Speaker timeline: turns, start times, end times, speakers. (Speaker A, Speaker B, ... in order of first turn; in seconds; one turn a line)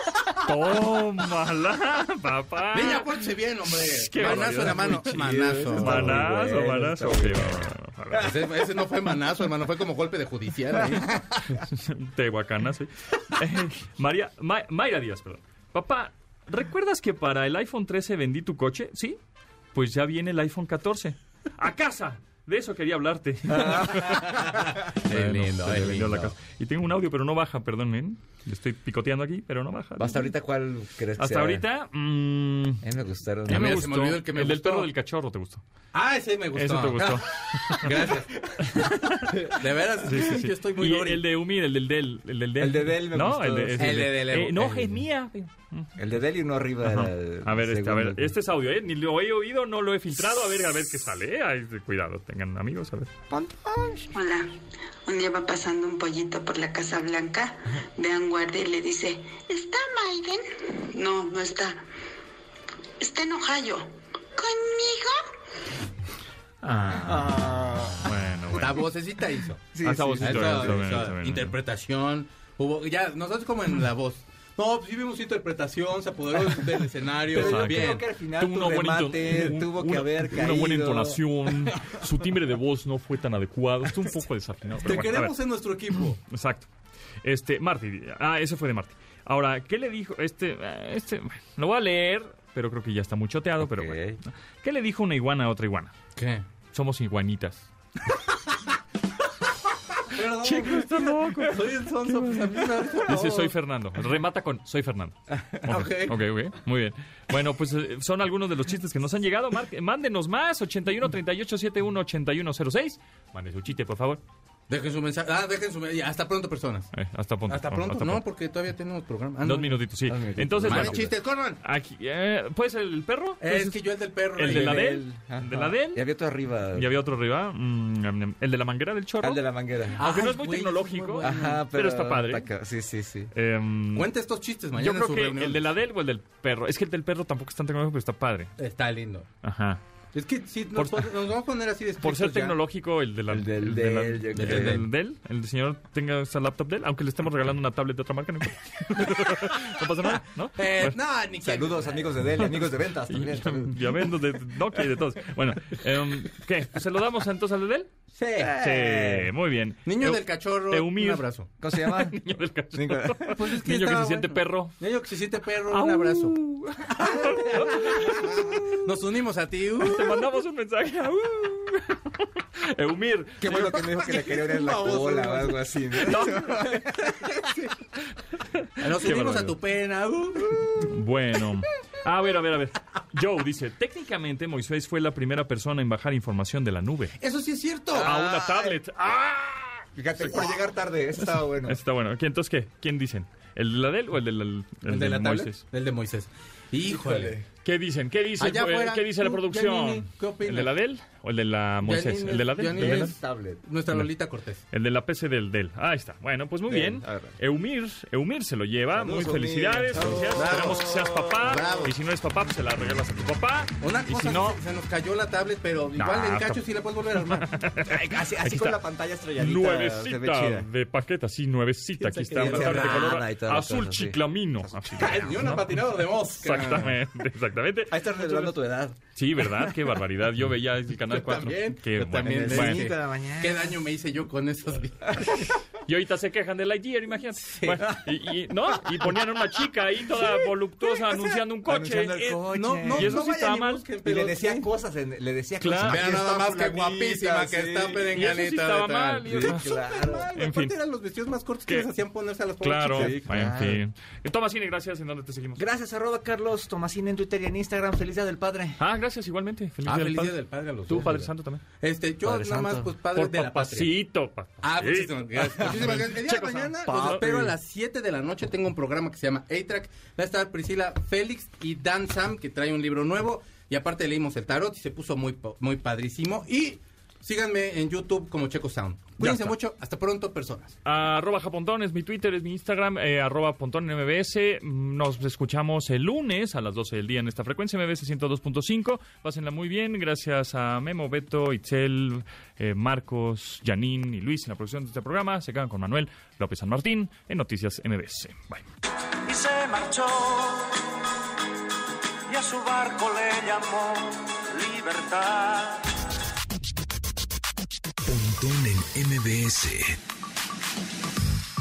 Speaker A: 0.3-8.3
Speaker B: 2.7-6.3
Speaker C: 4.2-7.7
Speaker B: 8.2-11.4
Speaker A: 11.5-19.2
Speaker A: 19.7-30.2
Speaker C: 23.5-24.3
Speaker B: 23.7-26.3
Speaker C: 30.0-31.6
Speaker A: 31.2-32.8
Speaker C: 32.8-33.9
Speaker A: 33.5-35.6
Speaker B: 33.5-34.9
Speaker B: 35.9-38.5
Speaker A: 36.5-37.9
Speaker C: 37.1-37.8
Speaker C: 38.3-39.3
Speaker A: 38.6-39.5
Speaker B: 39.3-41.2
Speaker A: 40.0-45.9
Speaker C: 42.6-45.0
Speaker B: 43.8-44.7
Speaker C: 46.0-48.3
Speaker A: 46.8-53.1
Speaker C: 53.3-54.1
Speaker D: 54.1-54.5
Speaker D: 55.1-61.8
Speaker D: 63.0-65.2
Speaker A: 66.7-67.4
Speaker C: 66.7-68.7
Speaker A: 68.0-68.8
Speaker B: 68.5-78.0
Speaker C: 69.7-71.1
Speaker A: 69.8-71.5
Speaker C: 77.3-82.0
Speaker A: 77.3-85.3
Speaker B: 84.8-86.2
Speaker A: 86.2-86.7
Speaker A: 87.2-95.9
Speaker C: 93.6-94.2
Speaker B: 96.2-96.4
Speaker A: 96.7-97.7
Speaker B: 100.0-103.5
Speaker A: 100.2-114.2
Speaker B: 105.5-106.2
Speaker B: 114.7-116.9
Speaker A: 116.9-118.2
Speaker B: 117.5-119.8
Speaker A: 119.4-123.8
Speaker C: 120.1-121.1
Speaker B: 120.6-121.6
Speaker B: 123.4-125.0
Speaker A: 124.3-126.0
Speaker C: 124.4-126.9
Speaker A: 126.7-129.4
Speaker C: 129.2-130.2
Speaker A: 129.9-132.5
Speaker B: 130.0-131.7
Speaker C: 131.2-133.3
Speaker A: 133.3-134.1
Speaker B: 133.9-135.7
Speaker A: 134.8-138.5
Speaker B: 138.6-139.3
Speaker A: 139.4-139.8
Speaker B: 140.1-142.6
Speaker A: 140.8-141.1
Speaker A: 142.0-150.9
Speaker C: 143.3-144.8
Speaker B: 144.3-144.9
Speaker B: 150.5-152.0
Speaker C: 151.4-153.9
Speaker A: 153.1-157.9
Speaker B: 158.1-158.6
Speaker C: 158.4-159.3
Speaker A: 158.5-164.8
Speaker B: 159.8-161.5
Speaker C: 161.6-163.4
Speaker B: 163.3-170.2
Speaker A: 165.7-168.8
Speaker A: 169.8-173.8
Speaker C: 173.4-177.6
Speaker B: 173.4-176.5
Speaker A: 176.0-176.9
Speaker B: 177.3-177.7
Speaker A: 178.5-179.5
Speaker B: 178.8-180.8
Speaker A: 180.8-187.1
Speaker B: 187.2-188.2
Speaker C: 187.9-188.8
Speaker A: 187.9-189.8
Speaker C: 189.9-191.8
Speaker A: 191.2-195.6
Speaker B: 194.8-197.4
Speaker C: 196.9-197.4
Speaker A: 197.6-203.2
Speaker B: 198.4-200.7
Speaker B: 201.8-204.6
Speaker C: 202.7-203.6
Speaker A: 204.7-214.6
Speaker C: 206.7-207.4
Speaker C: 208.9-211.9
Speaker B: 209.9-211.9
Speaker B: 213.8-217.5
Speaker A: 216.0-216.6
Speaker A: 217.1-218.8
Speaker C: 217.8-220.7
Speaker A: 219.4-228.4
Speaker B: 222.0-223.2
Speaker C: 222.3-225.6
Speaker B: 225.0-227.0
Speaker C: 227.9-229.8
Speaker A: 229.1-232.9
Speaker B: 231.1-235.6
Speaker C: 232.2-233.8
Speaker A: 235.8-243.8
Speaker B: 237.4-237.8
Speaker C: 237.8-239.2
Speaker C: 240.2-243.5
Speaker B: 242.5-244.7
Speaker C: 244.0-248.4
Speaker A: 245.6-246.1
Speaker B: 245.8-253.2
Speaker A: 248.1-250.7
Speaker C: 249.2-250.3
Speaker A: 252.6-255.6
Speaker C: 252.9-253.8
Speaker C: 255.6-258.8
Speaker A: 258.8-261.6
Speaker B: 259.8-263.9
Speaker C: 262.2-262.9
Speaker A: 263.1-267.4
Speaker B: 264.6-280.8
Speaker C: 265.6-266.1
Speaker C: 266.8-267.5
Speaker A: 279.2-279.5
Speaker A: 280.8-298.6
Speaker E: 299.2-300.9
Speaker E: 302.3-305.9
Speaker F: 308.0-310.0